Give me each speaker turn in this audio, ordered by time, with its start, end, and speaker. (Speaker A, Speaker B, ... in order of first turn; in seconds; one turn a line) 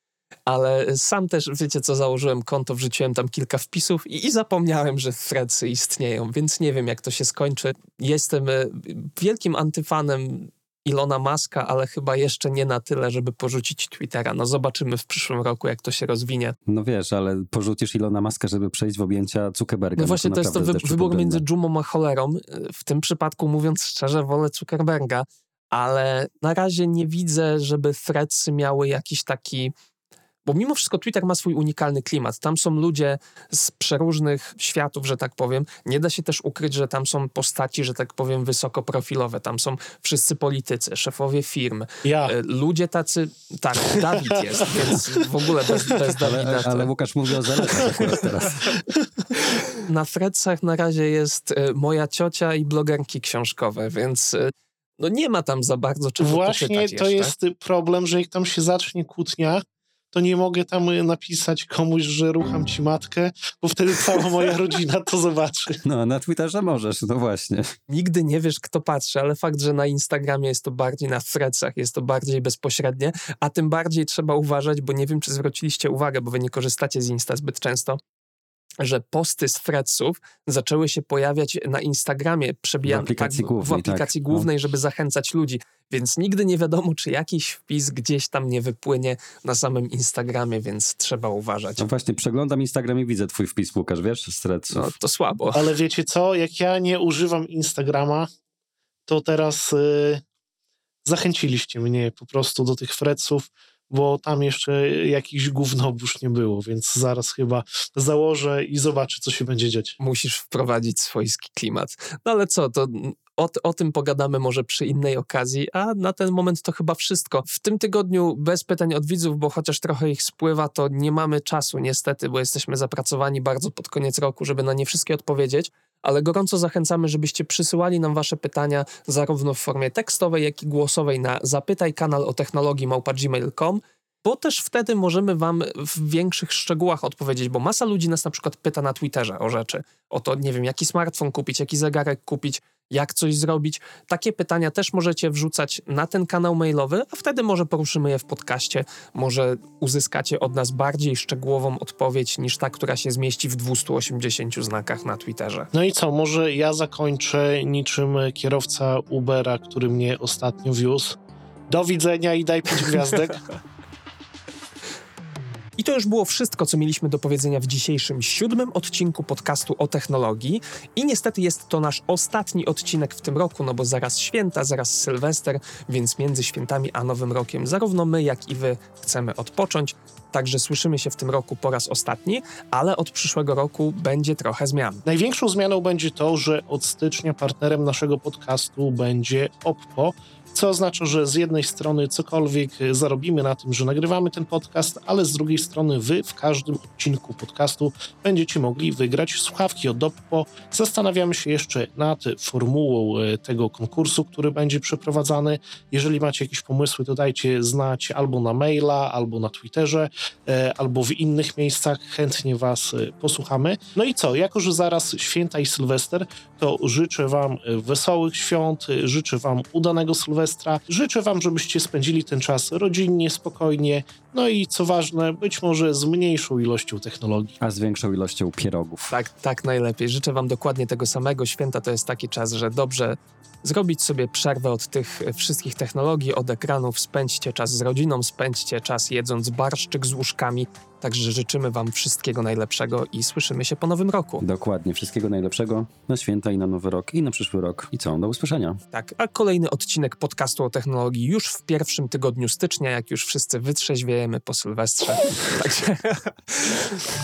Speaker A: 0.5-16.6
Speaker B: 16.7-21.4
Speaker A: 20.0-29.7
Speaker A: 30.4-46.9
Speaker C: 42.0-42.3
Speaker B: 46.1-48.7
Speaker C: 47.6-47.9
Speaker A: 49.9-57.3
Speaker C: 56.2-65.8
Speaker B: 65.8-67.7
Speaker A: 67.9-78.0
Speaker A: 78.8-91.9
Speaker B: 82.8-84.5
Speaker B: 91.8-94.9
Speaker A: 94.7-95.7
Speaker C: 95.5-98.3
Speaker C: 99.1-100.2
Speaker C: 101.0-110.0
Speaker A: 110.0-155.7
Speaker C: 155.7-161.2
Speaker C: 161.7-163.4
Speaker A: 165.8-185.0
Speaker C: 185.1-227.6
Speaker B: 227.6-229.1
Speaker A: 229.1-244.4
Speaker B: 244.4-248.8
Speaker A: 248.9-257.0